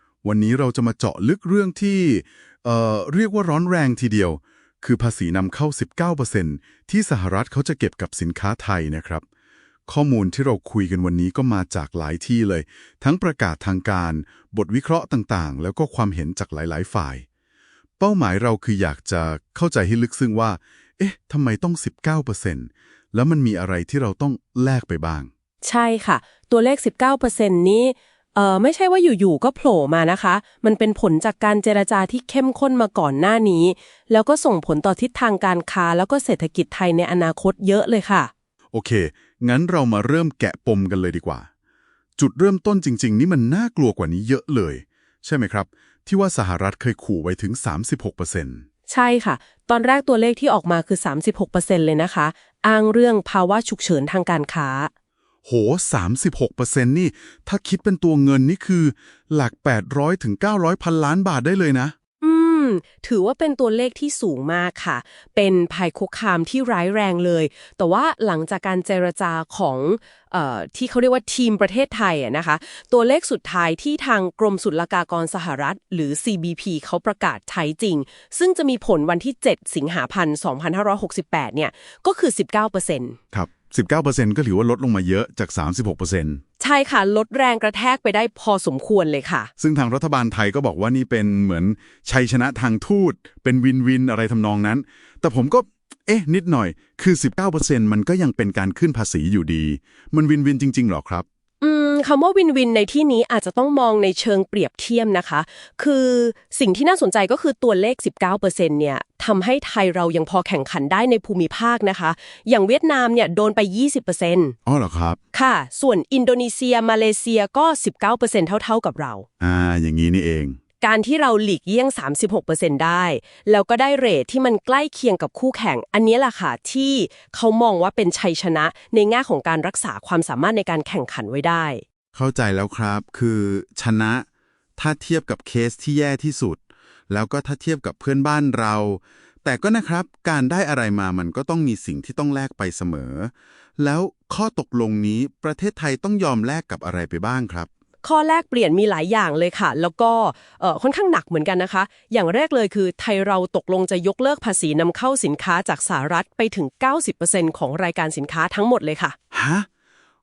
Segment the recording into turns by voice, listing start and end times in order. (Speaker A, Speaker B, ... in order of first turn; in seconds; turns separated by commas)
Speaker A: 0.2-9.2, Speaker A: 9.9-17.2, Speaker A: 18.0-25.3, Speaker B: 25.6-38.3, Speaker A: 38.7-41.5, Speaker A: 42.2-48.6, Speaker B: 48.9-54.9, Speaker A: 55.4-61.9, Speaker B: 62.2-83.2, Speaker A: 83.3-86.4, Speaker B: 86.6-89.5, Speaker A: 89.6-101.2, Speaker B: 101.6-114.5, Speaker A: 114.7-115.2, Speaker B: 115.3-119.2, Speaker A: 119.4-120.6, Speaker B: 120.8-131.8, Speaker A: 132.1-134.2, Speaker A: 134.8-147.7, Speaker B: 148.0-159.2, Speaker A: 159.3-159.7